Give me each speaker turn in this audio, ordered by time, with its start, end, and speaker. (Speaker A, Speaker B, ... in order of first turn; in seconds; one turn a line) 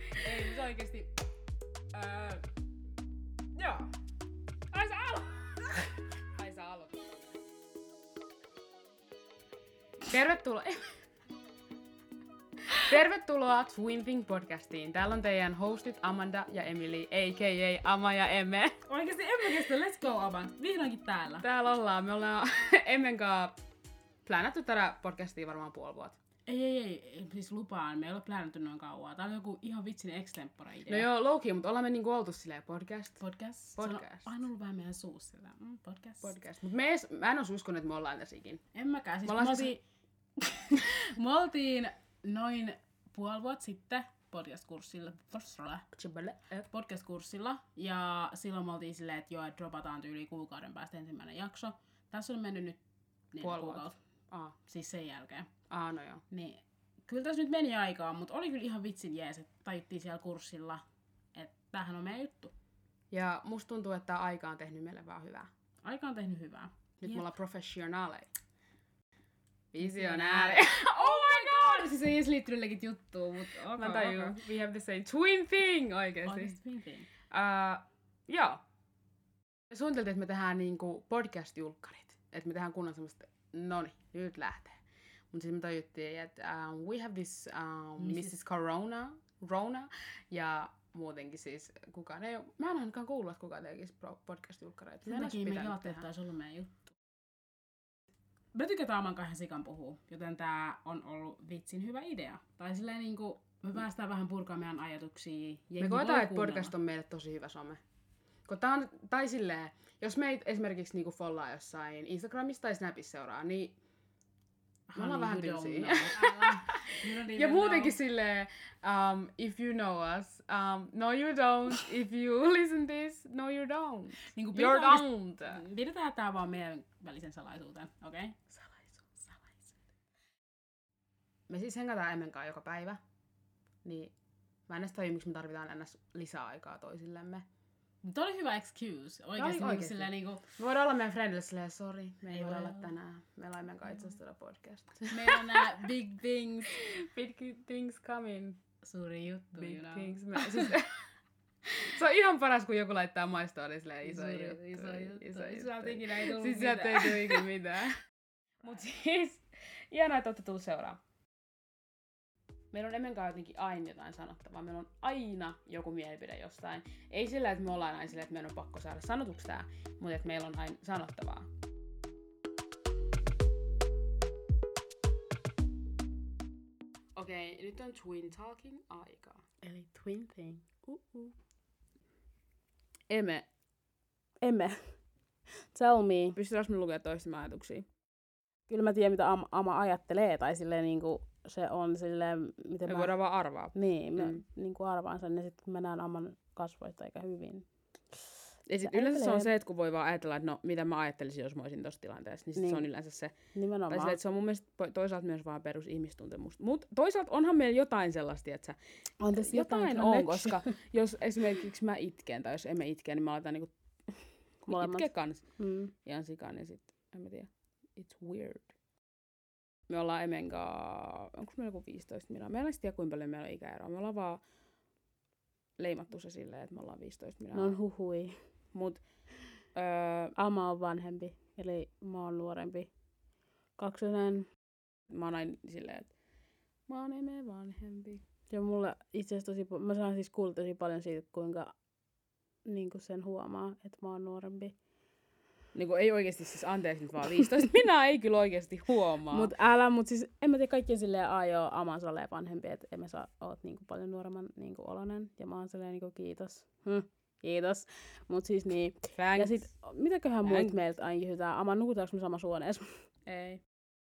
Speaker A: 0.2-1.1
Speaker A: 1.9-2.4
Speaker A: 3.6-3.9
Speaker B: 4.7-7.4
Speaker B: 10.1-10.8
Speaker B: 12.8-18.8
Speaker A: 18.9-21.4
Speaker B: 21.4-23.6
Speaker B: 24.3-26.2
Speaker A: 26.5-31.1
Speaker B: 30.9-33.2
Speaker A: 33.2-36.3
Speaker B: 33.8-34.3
Speaker B: 36.2-38.6
Speaker A: 38.7-39.8
Speaker B: 39.2-39.7
Speaker A: 40.4-45.9
Speaker B: 46.0-46.7
Speaker A: 46.7-52.8
Speaker A: 53.3-54.0
Speaker B: 53.4-54.5
Speaker A: 54.6-55.5
Speaker B: 55.7-56.2
Speaker A: 56.3-60.8
Speaker A: 61.4-62.5
Speaker B: 63.1-65.5
Speaker A: 65.8-67.3
Speaker B: 67.1-68.3
Speaker B: 69.7-76.6
Speaker A: 69.8-72.2
Speaker A: 72.9-74.4
Speaker A: 76.2-77.1
Speaker B: 77.3-78.6
Speaker B: 79.7-84.8
Speaker B: 85.3-96.1
Speaker A: 88.0-88.4
Speaker A: 95.0-96.9
Speaker A: 98.5-106.7
Speaker B: 105.8-107.8
Speaker B: 108.5-113.8
Speaker A: 114.9-118.0
Speaker B: 114.9-125.6
Speaker A: 124.2-128.4
Speaker B: 128.5-129.2
Speaker B: 131.5-133.0
Speaker B: 133.8-134.1
Speaker B: 134.7-137.4
Speaker A: 138.0-140.4
Speaker B: 139.4-145.7
Speaker A: 142.3-142.9
Speaker A: 145.0-146.8
Speaker B: 146.7-148.6
Speaker A: 148.8-150.8
Speaker B: 149.6-151.0
Speaker B: 151.8-158.0
Speaker A: 154.0-157.5
Speaker B: 158.6-161.0
Speaker B: 162.7-171.5
Speaker B: 177.2-179.4
Speaker A: 179.6-181.3
Speaker B: 183.1-183.5
Speaker A: 184.4-184.9
Speaker A: 185.7-186.4
Speaker B: 186.4-187.9
Speaker A: 188.7-193.1
Speaker B: 192.9-194.4
Speaker A: 193.7-197.7
Speaker B: 198.7-203.3
Speaker A: 198.8-199.5
Speaker A: 202.6-202.9
Speaker A: 203.6-204.2
Speaker B: 203.9-208.8
Speaker A: 209.2-210.6
Speaker B: 209.4-213.7
Speaker B: 214.7-215.4
Speaker A: 214.7-215.9
Speaker B: 216.1-218.7
Speaker B: 219.9-224.4
Speaker B: 225.8-227.8
Speaker A: 227.5-228.4
Speaker B: 228.7-229.0
Speaker B: 229.8-230.3
Speaker A: 230.4-232.9
Speaker A: 233.8-234.5
Speaker B: 235.1-236.1
Speaker B: 236.9-238.2
Speaker A: 238.5-241.7
Speaker A: 242.7-244.7
Speaker B: 245.7-249.5
Speaker A: 249.3-263.0
Speaker B: 259.2-259.7
Speaker B: 260.4-260.7
Speaker B: 263.3-263.6